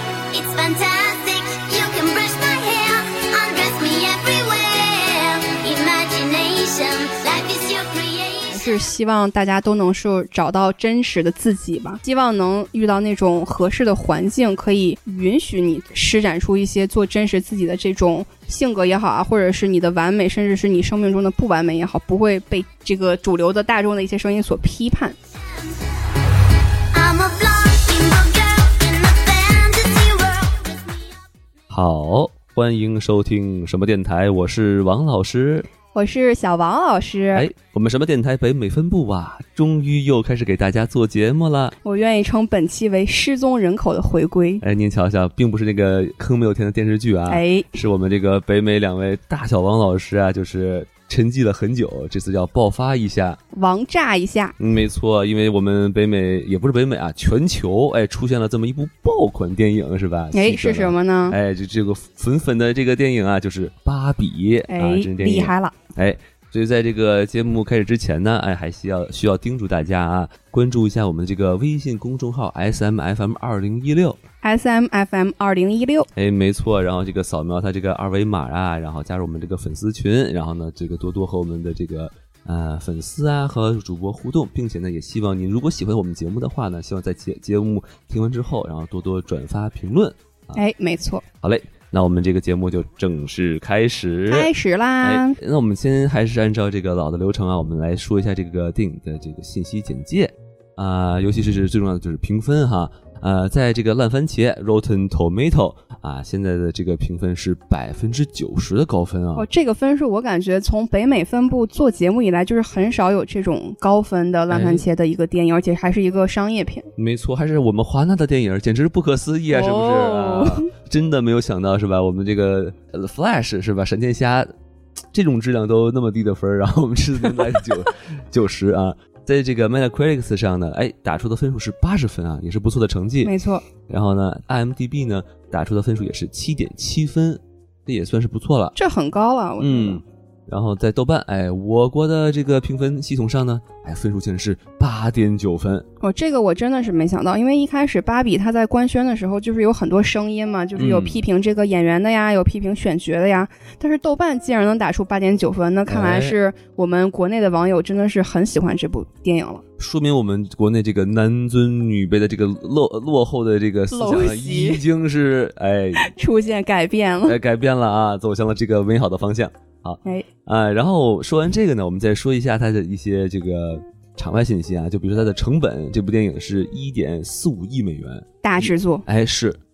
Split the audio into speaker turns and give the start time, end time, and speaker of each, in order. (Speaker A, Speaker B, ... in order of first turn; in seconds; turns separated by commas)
Speaker A: 0.3-8.8, Speaker B: 8.5-25.2, Speaker A: 26.9-31.1, Speaker C: 31.7-35.7, Speaker B: 35.9-37.5, Speaker C: 37.3-41.8, Speaker B: 41.8-44.6, Speaker C: 44.6-53.4, Speaker B: 47.3-47.7, Speaker B: 53.5-54.5, Speaker C: 54.6-74.2, Speaker B: 60.3-61.4, Speaker B: 64.7-65.8, Speaker B: 74.4-76.1, Speaker C: 76.2-90.6, Speaker B: 90.5-91.2, Speaker C: 91.4-109.5, Speaker B: 94.3-95.4, Speaker B: 109.3-116.9, Speaker C: 114.5-114.8, Speaker C: 117.0-124.5, Speaker B: 119.5-120.7, Speaker C: 125.1-133.3, Speaker B: 133.2-133.6, Speaker C: 133.9-138.7, Speaker B: 138.8-140.0, Speaker C: 139.6-145.9, Speaker B: 146.0-159.6, Speaker C: 150.8-151.2, Speaker C: 155.9-156.4, Speaker C: 159.8-166.1, Speaker B: 163.9-164.8, Speaker B: 166.0-167.4, Speaker C: 167.2-179.6, Speaker B: 178.4-179.1